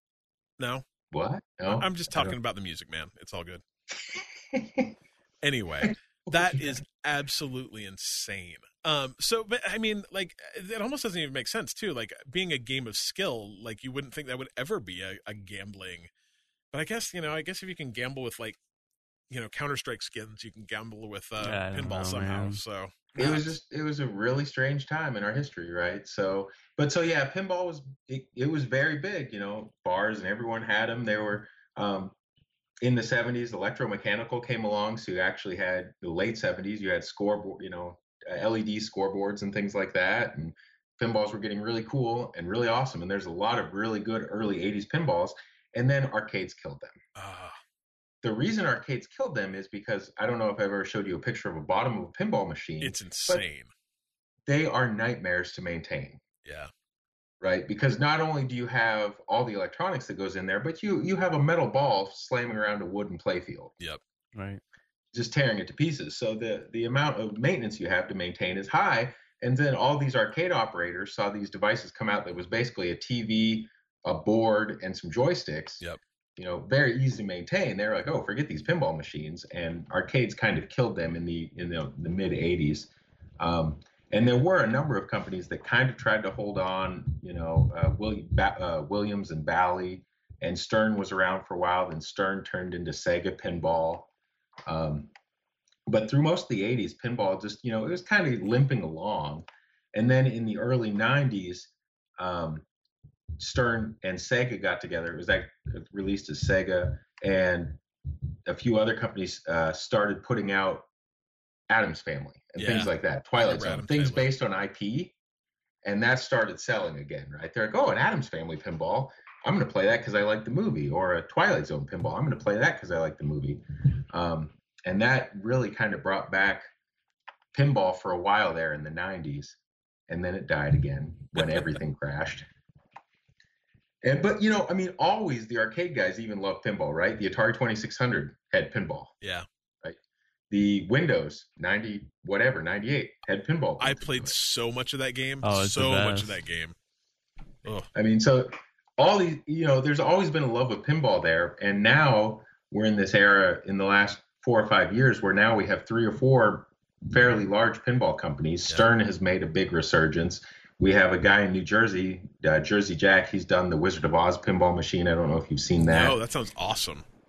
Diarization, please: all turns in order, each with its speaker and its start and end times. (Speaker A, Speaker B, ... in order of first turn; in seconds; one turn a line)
Speaker A: 1.1-2.3
Speaker B: 1.7-3.6
Speaker A: 4.2-4.9
Speaker B: 5.4-16.1
Speaker A: 5.8-6.8
Speaker B: 16.7-18.6
Speaker B: 19.3-23.6
Speaker C: 21.4-22.6
Speaker A: 23.1-32.1
Speaker A: 32.8-47.0
Speaker B: 47.1-47.6
Speaker A: 48.2-53.4
Speaker B: 52.8-53.7
Speaker A: 54.5-56.2
Speaker B: 56.4-56.7
Speaker A: 57.4-63.7
Speaker C: 64.3-64.6
Speaker A: 65.1-75.8
Speaker A: 76.4-94.1
Speaker A: 94.7-95.1
Speaker A: 95.9-102.6
Speaker A: 103.4-107.8
Speaker A: 108.4-110.8
Speaker A: 111.7-115.1
Speaker B: 112.6-114.3
Speaker A: 115.8-126.7
Speaker A: 127.5-129.6
Speaker A: 130.1-132.5
Speaker B: 131.4-131.6
Speaker A: 134.0-139.1
Speaker A: 140.5-144.3
Speaker B: 143.8-146.7
Speaker C: 145.4-146.4
Speaker A: 147.9-166.2
Speaker B: 165.8-167.0